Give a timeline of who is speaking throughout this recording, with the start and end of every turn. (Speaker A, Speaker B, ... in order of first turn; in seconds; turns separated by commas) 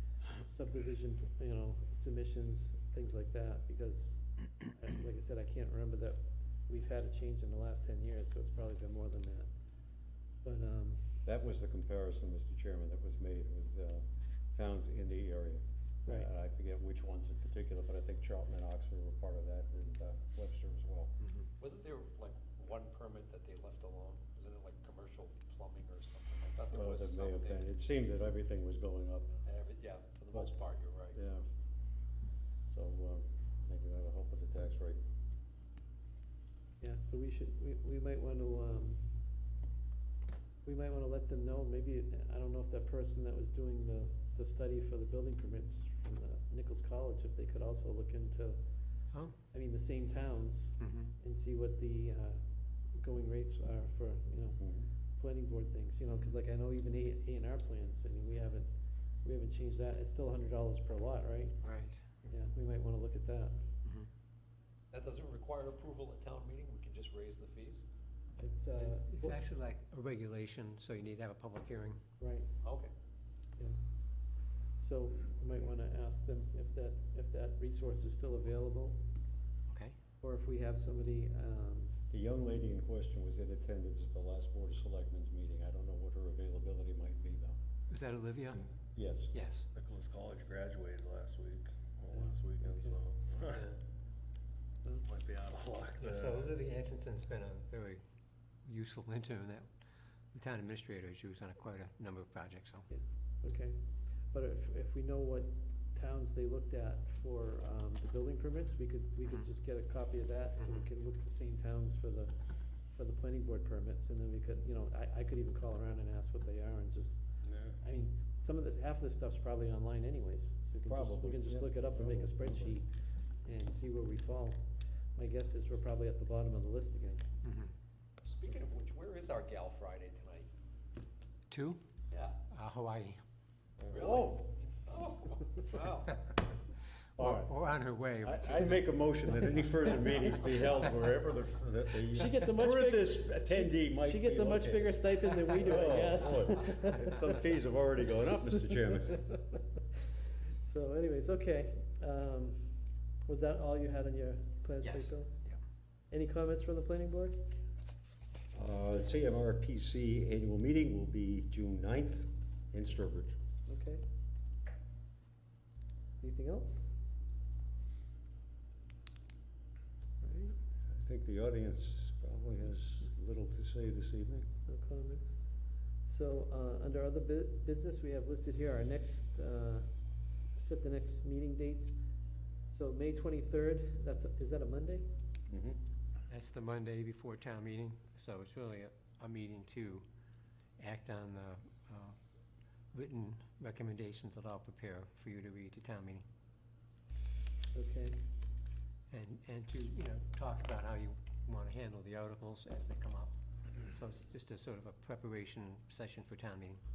Speaker A: 0.3-9.5, Speaker A: 10.4-11.2, Speaker B: 11.2-21.1, Speaker C: 21.6-27.5, Speaker B: 26.7-29.4, Speaker D: 26.7-27.0, Speaker C: 29.4-31.2, Speaker B: 31.1-31.4, Speaker B: 32.7-35.0, Speaker A: 36.8-39.1, Speaker A: 40.6-48.6, Speaker A: 49.5-52.4, Speaker D: 50.8-51.1, Speaker A: 53.0-58.7, Speaker B: 54.6-54.9, Speaker A: 59.2-61.6, Speaker D: 61.6-62.0, Speaker A: 62.2-63.6, Speaker C: 64.9-67.8, Speaker A: 68.4-69.4, Speaker D: 68.7-72.0, Speaker A: 72.2-72.6, Speaker C: 72.6-72.9, Speaker A: 74.8-79.0, Speaker D: 79.7-80.0, Speaker A: 80.2-82.0, Speaker B: 82.1-87.6, Speaker D: 87.9-88.7, Speaker B: 89.0-89.3, Speaker D: 89.3-89.7, Speaker E: 89.7-93.7, Speaker A: 92.1-93.0, Speaker D: 93.5-93.8, Speaker E: 95.0-96.6, Speaker D: 96.0-98.0, Speaker D: 98.6-99.7, Speaker D: 100.3-102.9, Speaker A: 102.9-127.2, Speaker D: 110.6-110.8, Speaker B: 120.9-122.8, Speaker D: 127.4-127.7, Speaker C: 128.2-130.5, Speaker D: 131.5-131.8, Speaker C: 132.1-132.4, Speaker D: 132.5-133.2, Speaker B: 133.9-134.5, Speaker C: 133.9-136.1, Speaker B: 137.2-137.6, Speaker D: 137.2-141.1, Speaker B: 138.2-149.3, Speaker A: 142.1-147.3, Speaker A: 149.1-149.6, Speaker A: 150.6-155.3, Speaker D: 154.8-155.6, Speaker A: 156.1-157.5, Speaker B: 158.5-163.4, Speaker A: 163.7-164.0, Speaker A: 166.2-166.9, Speaker A: 170.2-170.6, Speaker B: 170.8-174.5, Speaker A: 174.7-182.0, Speaker A: 182.7-185.1, Speaker B: 185.5-185.8, Speaker D: 186.3-190.1, Speaker D: 190.8-192.2, Speaker D: 192.9-196.3, Speaker A: 197.7-198.2, Speaker D: 199.1-206.8